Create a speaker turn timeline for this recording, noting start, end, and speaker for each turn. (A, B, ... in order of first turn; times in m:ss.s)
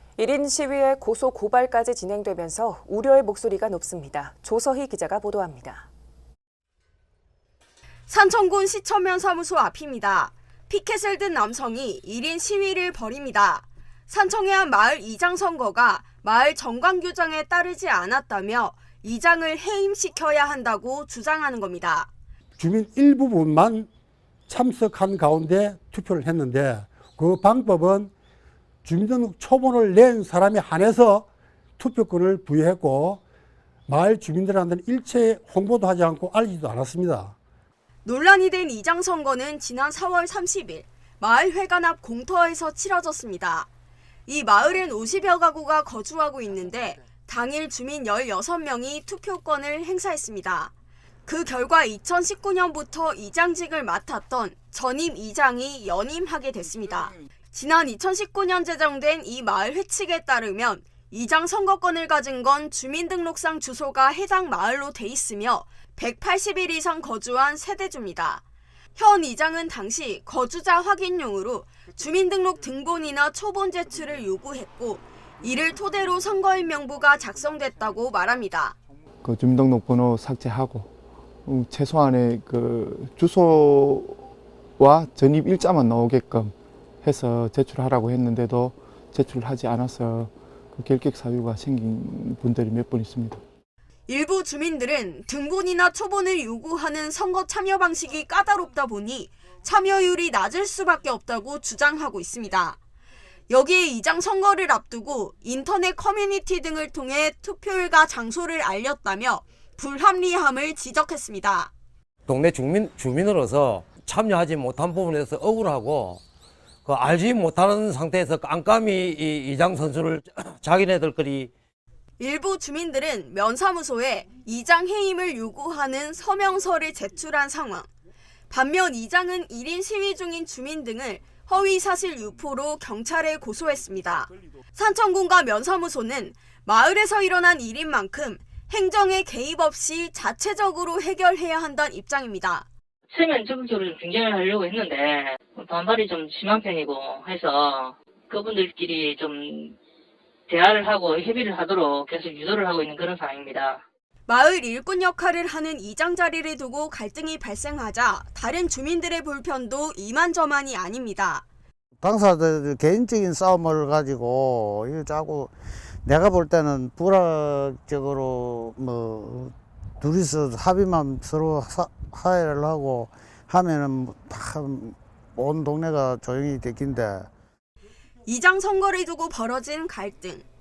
0:00.2-0:05.9 A
0:08.1-0:22.1 B
0:22.6-0:23.9 C
0:24.5-0:28.1 C
0:28.8-0:31.3 C
0:31.8-0:33.2 C
0:33.9-0:37.3 C
0:38.0-0:43.7 B
0:44.3-0:50.7 B
0:51.3-1:08.4 B
1:09.0-1:18.8 B
1:19.2-1:20.9 D
1:21.4-1:24.2 D
1:24.8-1:33.4 D
1:34.1-1:42.8 B
1:43.5-1:51.7 B
1:52.3-1:56.2 E
1:56.8-2:01.5 E
2:02.2-2:07.9 B
2:08.5-2:22.7 B
2:23.1-2:29.8 F
2:30.5-2:33.8 F
2:34.3-2:41.4 B
2:42.0-2:45.5 G
2:46.0-2:57.3 G
2:58.2-3:00.5 B